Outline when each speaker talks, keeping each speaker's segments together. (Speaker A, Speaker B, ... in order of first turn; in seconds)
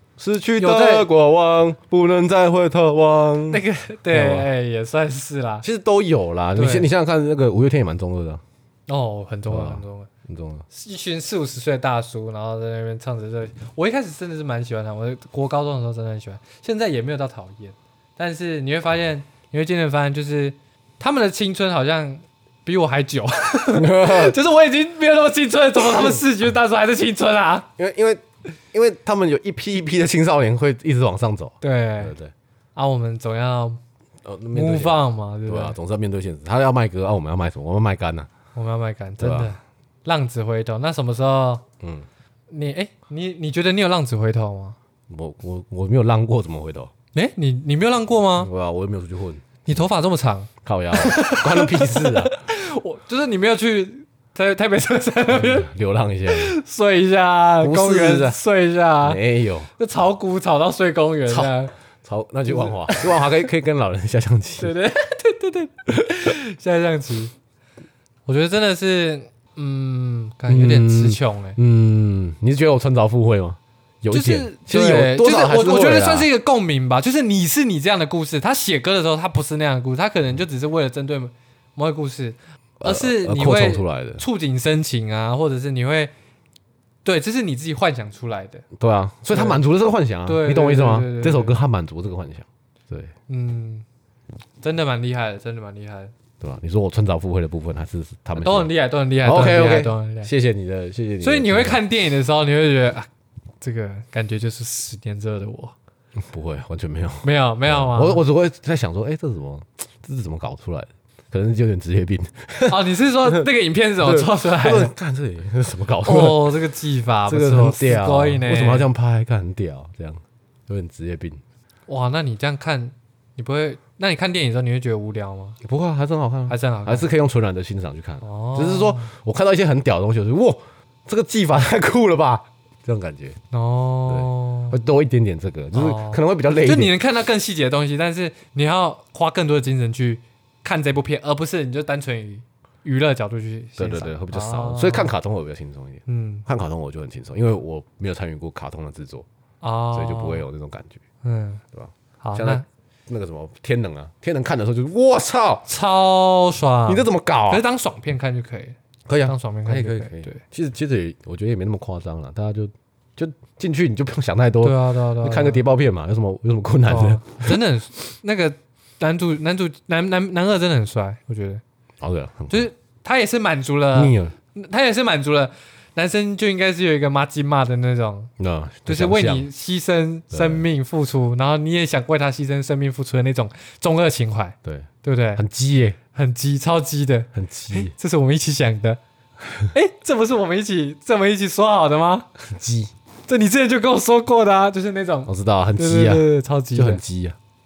Speaker A: 0.2-4.5, 5.6-8.4, 9.5-10.7, 23.7-24.4, 25.8-26.2, 27.8-32.3, 34.2-38.3, 39.2-39.5, 41.8-42.1, 45.1-46.9, 48.4-49.4, 50.6-52.3, 55.3-56.5, 57.6-58.4, 59.0-59.7, 61.3-64.7, 70.5-76.3, 82.8-84.2, 88.7-93.1, 96.4-98.7, 99.2-101.8, 106.2-113.5, 114.0-116.5, 117.3-121.4, 125.6-133.4, 134.1-136.9, 143.8-149.3, 149.9-151.0, 151.7-155.7, 156.9-157.6, 159.1-167.6, 172.0-172.7, 173.9-174.3, 178.4-179.5, 180.3-180.6, 184.6-186.0, 187.3-187.9, 192.4-192.9, 195.3-197.4
Speaker B: 0.6-1.1, 3.5-5.7, 6.6-6.9, 8.9-10.1, 10.7-27.7, 31.6-32.1, 32.8-33.8, 34.5-35.8, 38.5-41.6, 42.5-44.8, 47.1-48.5, 49.6-55.7, 56.3-59.2, 59.8-61.7, 62.5-63.3, 64.6-67.3, 68.3-71.6, 74.1-86.1, 87.0-88.7, 89.3-89.6, 90.3-91.6, 93.3-93.8, 94.6-96.1, 98.4-100.3, 101.2-103.1, 103.6-105.7, 107.2-108.2, 112.7-114.9, 116.0-118.9, 121.9-125.6, 126.5-127.1, 128.2-129.1, 133.5-134.8, 135.7-145.1, 146.1-146.4, 149.6-150.4, 151.2-151.6, 152.2-152.7, 155.7-160.4, 164.6-165.6, 166.9-171.6, 172.5-178.3, 178.9-185.4, 186.1-189.0, 189.7-192.3, 193.3-197.0